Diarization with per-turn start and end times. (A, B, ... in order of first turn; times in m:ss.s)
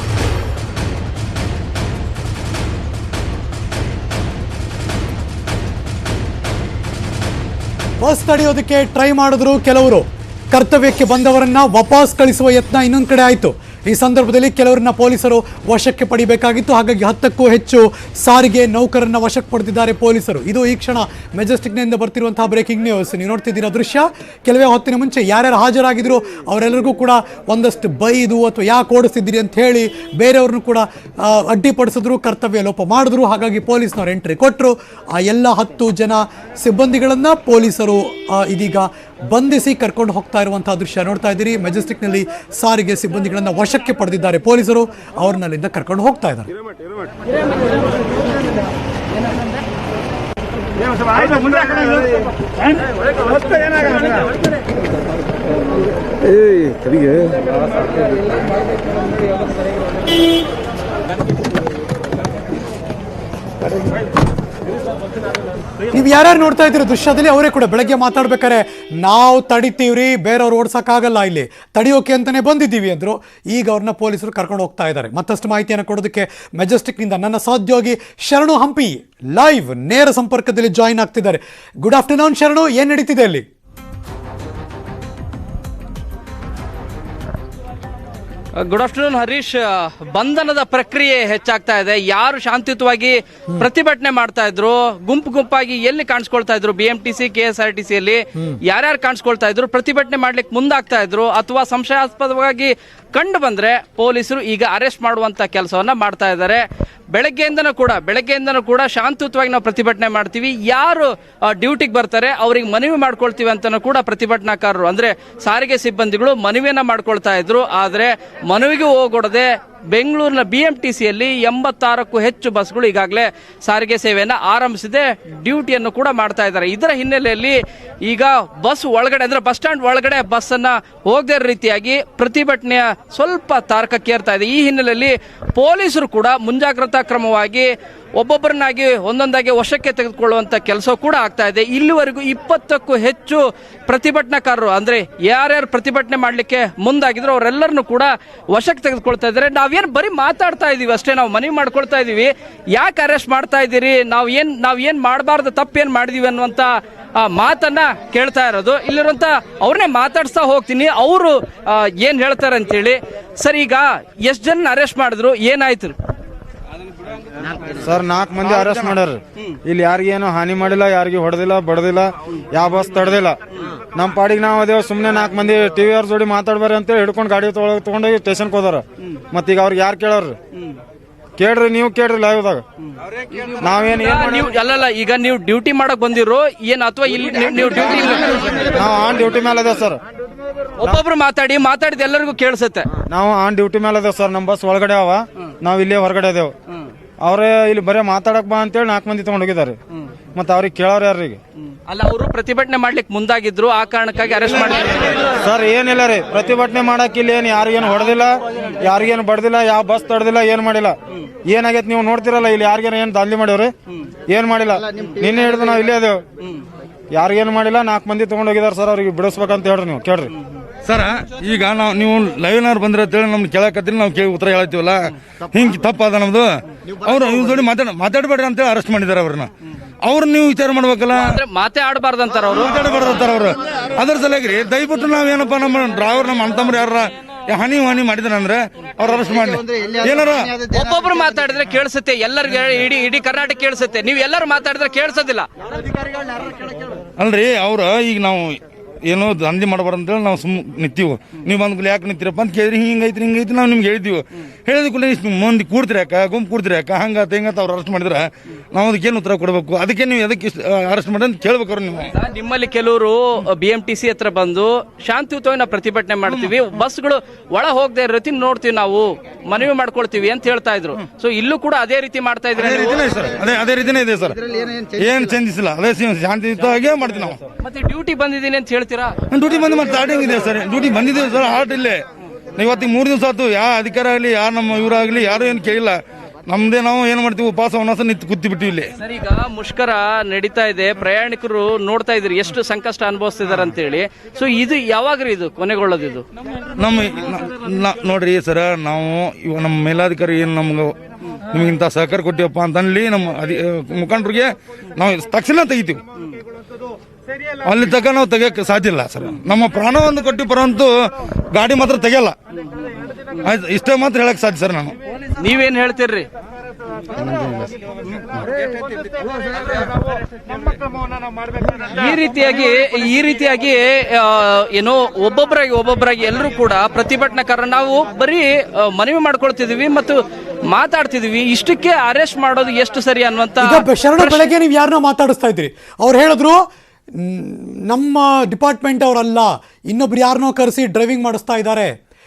0:08.0-0:46.5 A
0:56.4-0:57.3 B
1:05.9-1:23.4 A
1:28.6-2:45.9 C
2:47.8-2:53.4 D
2:53.9-3:00.4 D
3:01.4-3:02.6 D
3:03.6-3:04.4 D
3:03.8-3:08.7 C
3:08.7-3:10.0 D
3:10.8-3:12.9 C
3:13.1-3:16.5 D
3:17.2-3:19.8 D
3:20.3-3:21.4 D
3:21.9-3:25.1 C
3:25.4-3:33.7 D
3:34.3-3:36.2 D
3:37.1-3:40.3 D
3:40.8-3:49.5 B
3:50.0-3:51.4 B
3:51.1-3:52.7 C
3:52.6-4:00.6 B
4:00.6-4:05.5 C
4:07.2-4:22.1 B
4:22.1-4:33.1 C
4:26.3-4:26.5 B
4:32.5-4:37.4 B
4:37.6-4:39.2 C
4:39.3-4:42.0 B
4:42.6-4:48.9 B
4:49.0-4:56.2 C
4:56.8-5:00.9 B
5:01.5-5:06.0 B
5:07.6-5:10.9 B
5:11.5-5:12.4 B
5:13.4-5:14.9 B
5:15.4-5:16.3 C
5:21.8-5:34.5 C
5:33.6-5:36.6 A
5:37.2-5:41.9 A